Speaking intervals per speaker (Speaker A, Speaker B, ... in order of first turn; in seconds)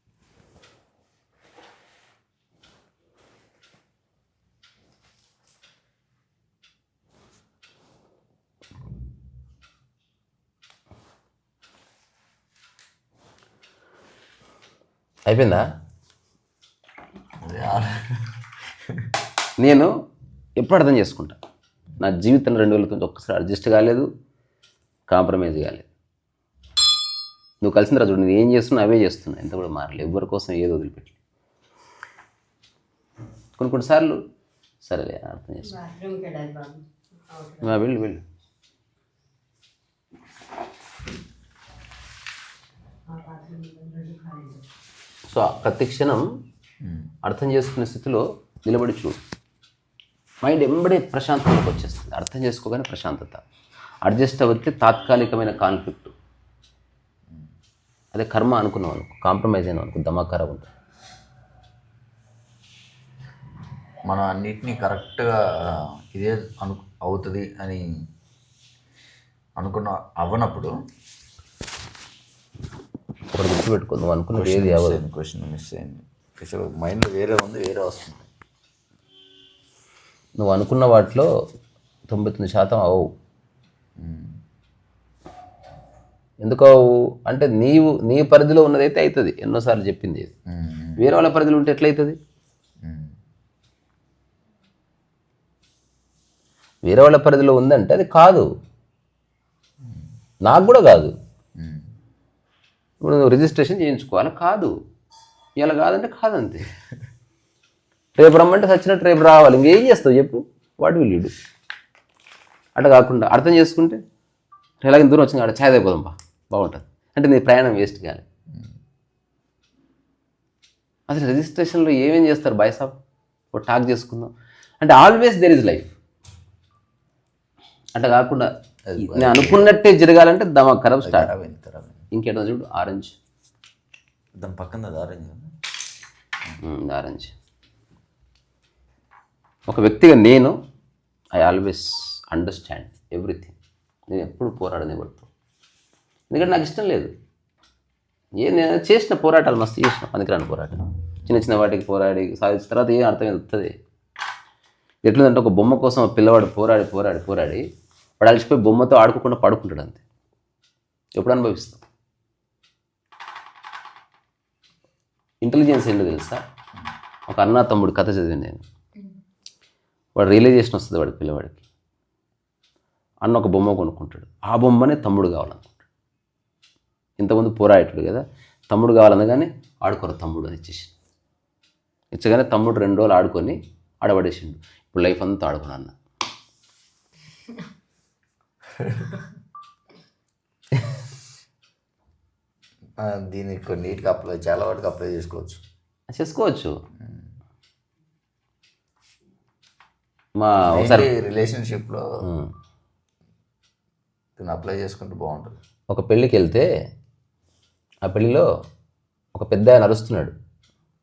Speaker A: 15.3-15.7, 19.6-19.9, 20.6-21.4, 22.0-24.1, 25.1-25.9, 27.6-31.1, 33.6-34.2, 34.8-35.8, 37.6-38.2, 45.3-46.3, 47.2-49.2, 50.4-53.4, 54.0-56.1, 58.1-60.7, 73.3-75.0, 80.4-81.3, 82.1-83.1, 86.4-90.3, 91.0-92.2, 96.8-98.5, 100.4-101.1, 103.0-104.7, 105.6-106.7, 108.2-111.3, 112.8-114.0, 114.8-118.2, 121.1-123.0, 123.5-125.9, 128.0-131.3, 132.1-133.2, 136.6-137.3, 139.7-140.6, 141.3-143.6, 144.1-145.3, 146.3-147.1, 148.4-153.8, 155.0-157.7, 158.2-160.0, 161.2-161.8, 165.4-166.4, 167.3-168.6, 170.2-171.6, 173.2-175.8, 177.2-180.9, 182.1-185.9, 196.1-196.7, 200.4-201.1, 202.2-202.5, 205.9-206.7, 208.0-208.5, 209.3-210.3
Speaker B: 17.4-19.1, 46.8-47.1, 64.1-67.9, 69.6-70.7, 74.3-78.3, 84.0-84.4, 90.5-91.0, 92.8-93.2, 101.6-101.9, 128.9-129.7, 131.0-132.0, 134.4-135.5, 188.8-189.2, 193.0-195.6, 197.0-197.3, 200.7-202.1, 204.4-205.6
Speaker C: 35.6-37.8, 43.1-44.6